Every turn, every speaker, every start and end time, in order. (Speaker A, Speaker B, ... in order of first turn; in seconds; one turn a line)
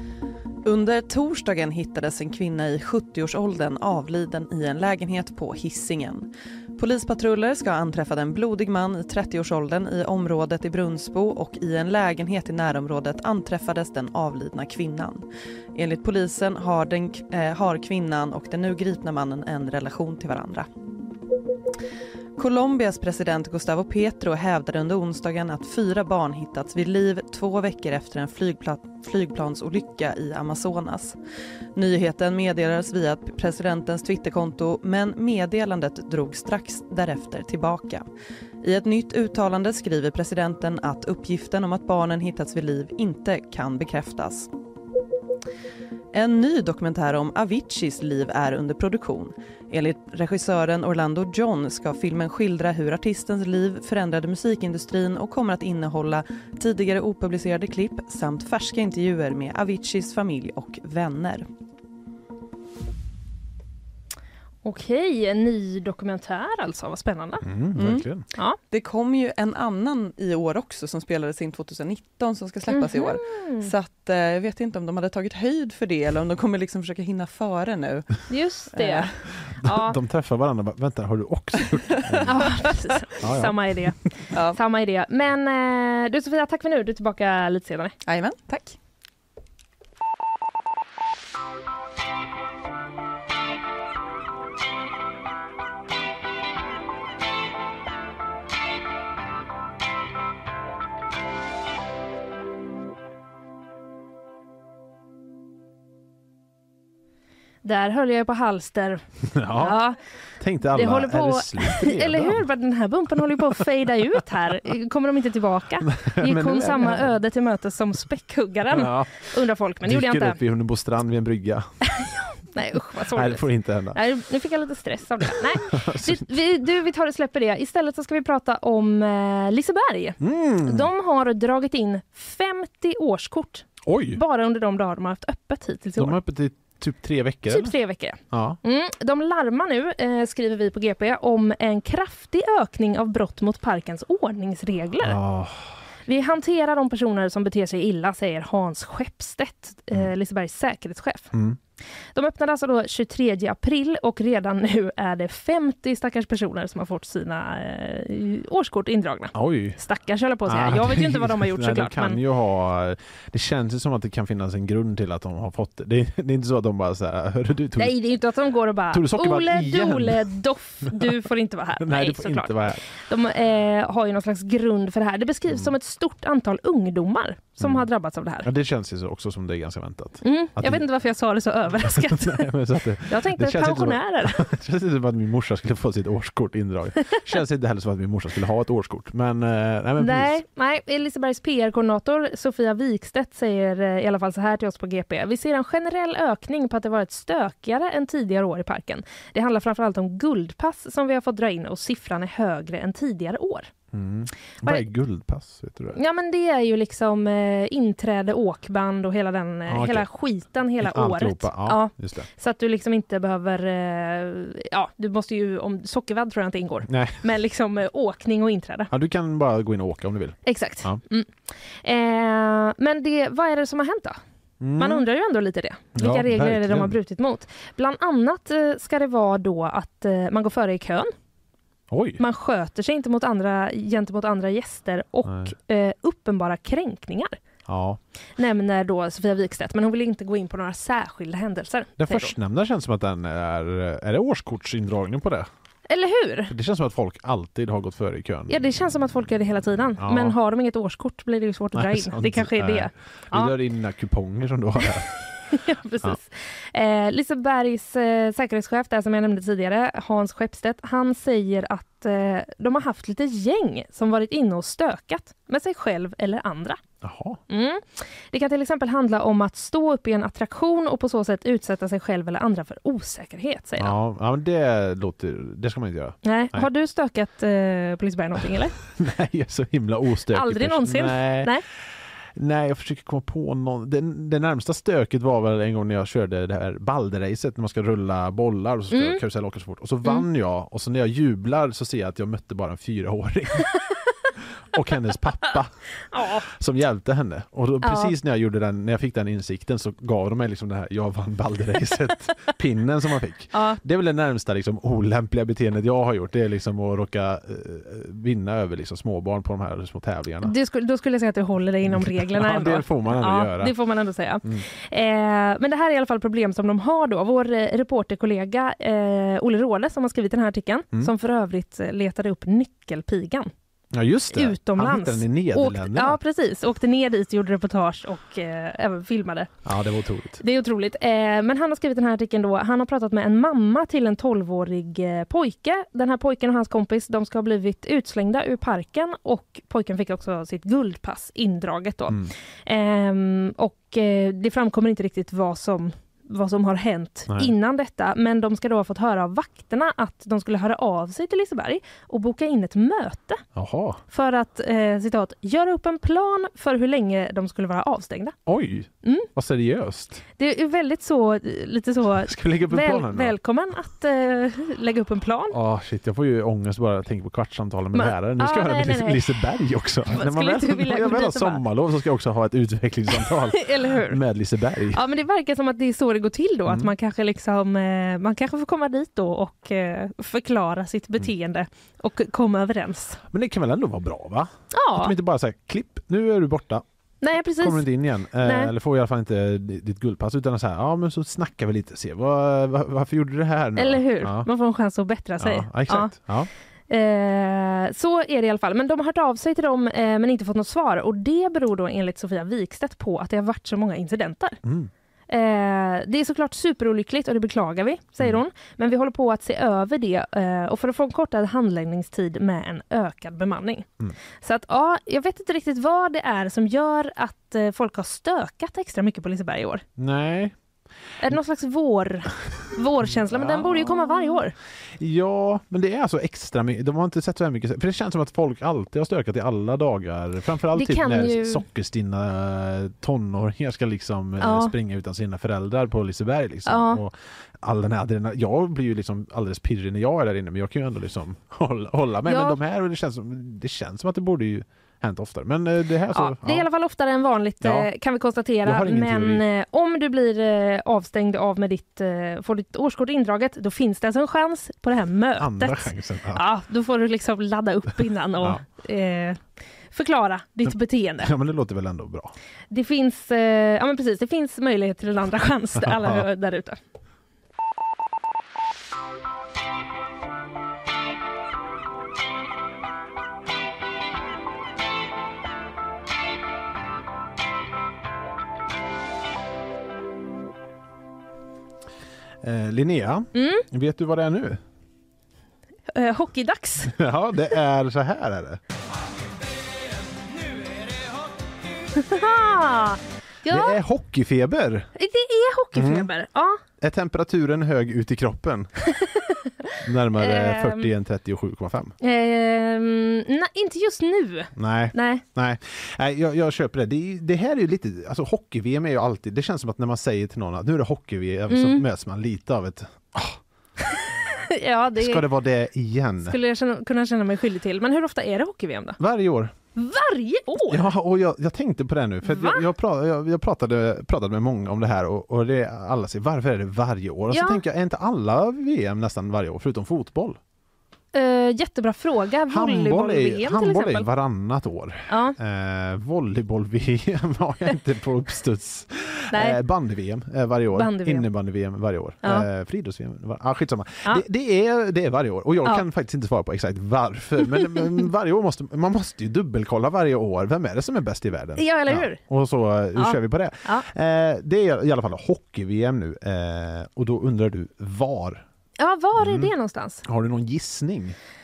Speaker A: 0.7-20.7
Speaker A: 22.4-31.2
Speaker A: 31.8-38.0
Speaker A: 38.6-44.5
Speaker A: 46.1-61.5
Speaker B: 64.6-67.5
Speaker C: 67.4-68.2
Speaker A: 67.8-68.1
Speaker A: 68.6-79.1
Speaker B: 72.7-73.7
Speaker B: 78.3-80.0
Speaker C: 79.5-82.3
Speaker B: 82.3-84.0
Speaker C: 83.2-83.9
Speaker A: 84.3-84.6
Speaker B: 84.5-88.0
Speaker A: 88.1-88.8
Speaker B: 107.6-109.0
Speaker C: 109.3-109.8
Speaker B: 109.5-110.0
Speaker C: 110.4-112.5
Speaker B: 110.7-120.4
Speaker C: 115.8-117.1
Speaker C: 118.7-119.1
Speaker C: 119.8-121.7
Speaker B: 121.9-136.2
Speaker C: 123.1-124.0
Speaker C: 125.2-126.3
Speaker C: 130.2-130.9
Speaker C: 133.8-134.2
Speaker C: 136.0-137.8
Speaker B: 137.5-145.2
Speaker C: 138.3-138.6
Speaker C: 145.0-145.7
Speaker B: 146.1-151.3
Speaker C: 151.3-151.6
Speaker B: 152.2-162.2
Speaker C: 159.3-159.8
Speaker C: 160.5-168.0
Speaker B: 167.8-178.5
Speaker C: 168.9-171.2
Speaker C: 171.8-172.8
Speaker C: 177.6-177.9
Speaker C: 178.4-180.8
Speaker B: 180.2-182.5
Speaker C: 181.8-190.4
Speaker B: 183.1-184.4
Speaker B: 190.0-203.7
Speaker C: 203.9-206.0
Speaker B: 206.0-218.9
Speaker C: 209.7-210.1
Speaker C: 210.8-212.3
Speaker C: 216.9-217.2
Speaker C: 218.9-221.0
Speaker B: 220.5-224.2
Speaker C: 224.6-225.1
Speaker B: 224.8-231.1
Speaker C: 225.9-226.9
Speaker C: 231.9-232.2
Speaker B: 232.2-237.4
Speaker C: 235.2-235.5
Speaker C: 237.7-238.0
Speaker B: 238.4-242.3
Speaker C: 242.0-245.5
Speaker B: 245.9-246.5
Speaker C: 246.5-248.5
Speaker B: 248.5-253.6
Speaker C: 250.0-250.4
Speaker C: 251.8-255.1
Speaker B: 255.5-266.8
Speaker C: 267.0-267.4
Speaker B: 267.5-274.0
Speaker C: 273.8-276.7
Speaker B: 276.2-278.8
Speaker C: 278.9-281.6
Speaker B: 280.3-281.6
Speaker C: 282.4-293.7
Speaker B: 288.9-289.2
Speaker C: 294.7-295.7
Speaker B: 296.1-296.5
Speaker C: 296.4-310.5
Speaker B: 297.8-298.1
Speaker B: 303.5-303.8
Speaker B: 310.4-323.5
Speaker C: 311.9-313.8
Speaker C: 323.9-326.2
Speaker B: 324.3-329.5
Speaker C: 329.6-330.4
Speaker B: 330.4-353.4
Speaker C: 353.6-354.0
Speaker B: 354.1-358.4
Speaker C: 358.5-360.2
Speaker B: 359.0-359.3
Speaker B: 360.4-365.6
Speaker C: 362.2-363.4
Speaker C: 365.5-375.0
Speaker B: 367.9-369.3
Speaker B: 370.1-371.6
Speaker B: 373.1-374.2
Speaker B: 374.9-383.2
Speaker C: 376.7-376.9
Speaker C: 383.3-386.8
Speaker B: 384.7-385.1
Speaker B: 387.2-387.9
Speaker C: 387.6-394.5
Speaker B: 388.4-388.7
Speaker B: 393.8-396.1
Speaker C: 395.4-396.5
Speaker B: 396.9-404.6
Speaker C: 404.6-404.9
Speaker B: 405.3-413.9
Speaker B: 414.4-419.8
Speaker C: 420.0-420.6
Speaker B: 421.2-424.6
Speaker C: 423.0-424.4
Speaker C: 425.0-446.7
Speaker B: 430.8-431.6
Speaker B: 434.4-434.8
Speaker B: 436.7-437.0
Speaker B: 442.3-442.6
Speaker B: 446.1-459.4
Speaker C: 447.6-447.9
Speaker C: 448.6-449.4
Speaker C: 455.4-456.4
Speaker B: 459.9-461.3
Speaker C: 460.6-462.3
Speaker B: 462.7-466.8
Speaker C: 465.8-466.2
Speaker C: 482.4-484.6
Speaker B: 483.3-483.6
Speaker B: 485.9-486.9
Speaker C: 486.8-488.6
Speaker B: 491.9-493.8
Speaker C: 493.5-494.9
Speaker B: 495.0-496.6
Speaker C: 495.8-496.1
Speaker C: 496.8-498.7
Speaker B: 499.0-500.9
Speaker C: 499.8-501.9
Speaker B: 502.0-505.2
Speaker C: 504.6-513.4
Speaker B: 511.5-511.9
Speaker B: 513.9-515.2
Speaker C: 515.0-516.4
Speaker B: 516.2-519.0
Speaker C: 519.0-519.5
Speaker B: 519.8-520.9
Speaker C: 520.6-530.4
Speaker B: 522.2-522.6
Speaker B: 527.3-527.6
Speaker B: 531.1-534.1
Speaker C: 532.5-558.5
Speaker B: 535.1-535.4
Speaker B: 539.3-539.6
Speaker B: 540.7-541.3
Speaker B: 551.6-552.2
Speaker B: 553.0-553.9
Speaker B: 558.8-560.0
Speaker C: 559.2-559.5
Speaker C: 560.0-561.2